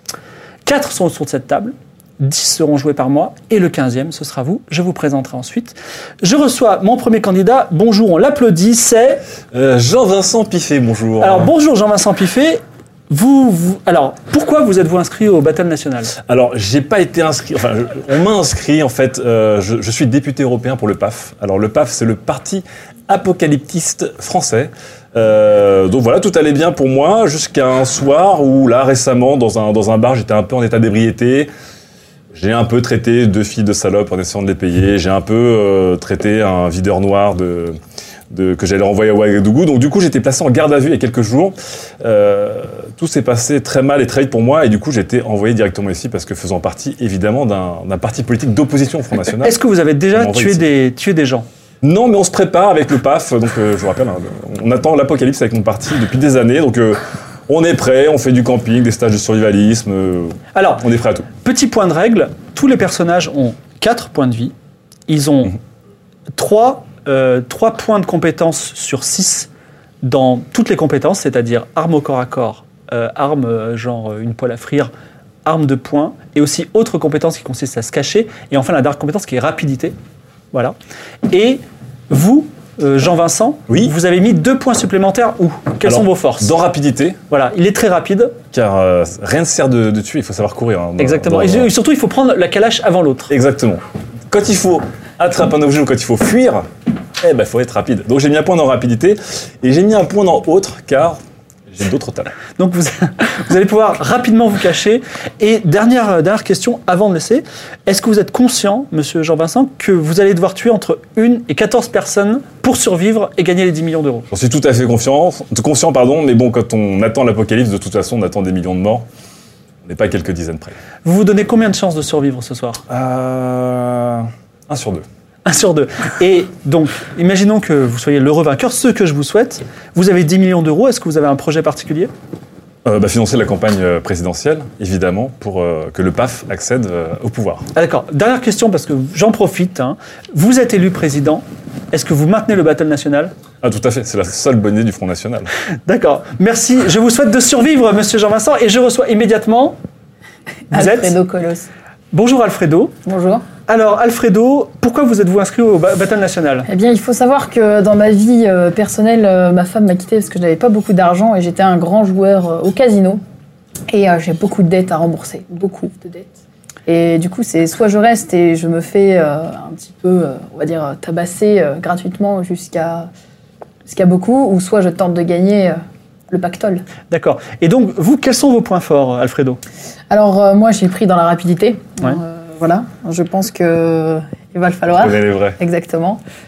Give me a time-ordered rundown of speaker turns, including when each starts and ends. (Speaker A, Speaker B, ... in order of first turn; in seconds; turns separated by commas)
Speaker A: 0.7-9.2, Speaker B: 9.5-11.5, Speaker A: 11.2-16.1, Speaker B: 16.2-31.5, Speaker B: 32.4-37.8, Speaker B: 38.3-49.6, Speaker A: 49.4-51.5, Speaker B: 50.1-50.6, Speaker B: 51.8-61.3, Speaker A: 60.5-64.5, Speaker A: 65.1-65.6, Speaker A: 66.3-69.5, Speaker A: 70.0-74.9, Speaker A: 75.5-80.0, Speaker A: 81.3-86.5, Speaker B: 83.7-83.9, Speaker B: 85.8-87.2, Speaker A: 87.3-88.4, Speaker B: 88.5-91.7, Speaker A: 91.0-93.3, Speaker B: 93.3-96.7, Speaker B: 97.2-101.2, Speaker B: 101.7-102.4, Speaker A: 102.6-114.3, Speaker B: 114.3-119.1, Speaker B: 119.8-120.8, Speaker A: 121.0-122.8, Speaker B: 122.9-125.0, Speaker A: 125.5-132.1, Speaker B: 132.8-137.7, Speaker A: 137.8-143.3, Speaker B: 143.6-145.5, Speaker A: 145.9-149.8, Speaker A: 150.7-151.2, Speaker C: 150.7-151.7, Speaker A: 152.1-152.9, Speaker C: 153.1-153.5, Speaker A: 153.7-156.7, Speaker C: 156.7-163.2, Speaker C: 163.9-166.3, Speaker C: 166.9-173.1, Speaker C: 173.9-175.8, Speaker C: 176.3-176.9, Speaker A: 177.1-179.6, Speaker C: 180.1-186.2, Speaker B: 185.0-185.6